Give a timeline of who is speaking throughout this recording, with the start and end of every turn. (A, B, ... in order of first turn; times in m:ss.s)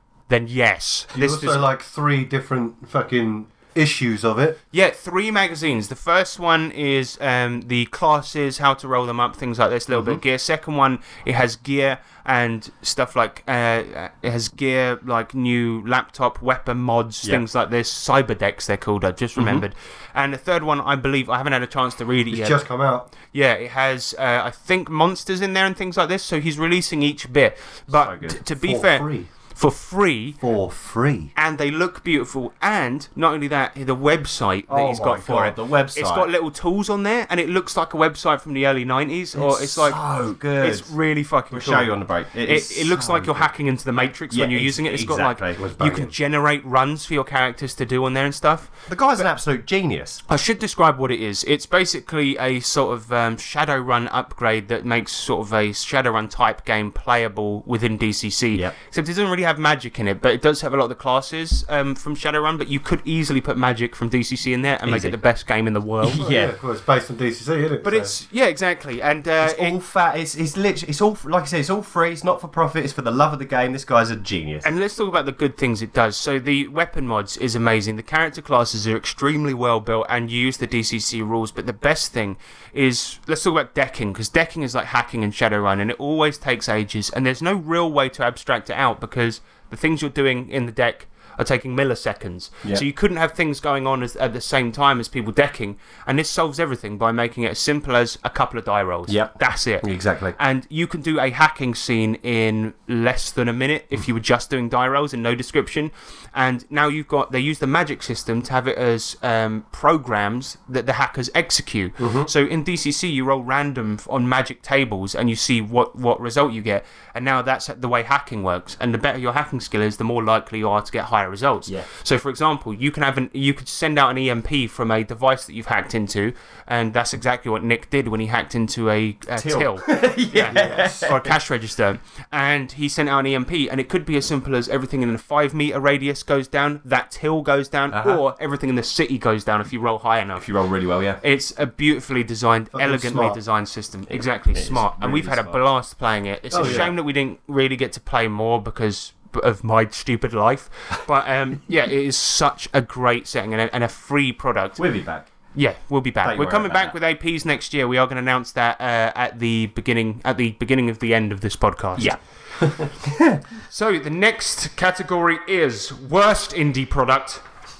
0:00.3-0:01.6 A
0:01.1-0:04.6 B
0:04.7-0:22.6 A
0:09.9-0:10.2 C
0:19.4-0:19.6 C
0:22.3-0:23.1 B
0:23.2-0:30.4 A
0:27.9-0:28.4 C
0:28.6-0:29.3 B
0:30.4-0:31.3 B
0:31.4-0:40.0 A
0:34.7-0:36.3 C
0:39.3-0:40.9 C
0:40.6-0:48.7 A
0:41.5-0:43.5 C
0:44.3-0:45.6 C
0:45.6-0:46.1 B
0:48.9-0:50.2 C
0:50.3-1:06.3 A
1:04.8-1:05.2 C
1:06.0-1:06.5 C
1:06.2-1:08.1 B
1:07.8-1:09.7 A
1:09.4-1:14.7 C
1:14.6-2:20.5 A
1:39.1-1:40.4 C
1:52.0-1:52.3 C
2:09.4-2:11.3 C
2:10.5-2:11.0 B
2:17.9-2:18.2 C
2:20.4-2:21.2 C
2:21.2-2:34.8 A
2:22.7-2:23.4 B
2:24.1-2:25.6 C
2:26.5-2:26.9 B
2:26.5-2:26.9 C
2:34.8-2:35.3 C
2:35.5-2:42.1 A
2:36.2-2:37.0 C
2:42.0-2:43.4 C
2:43.7-2:47.4 A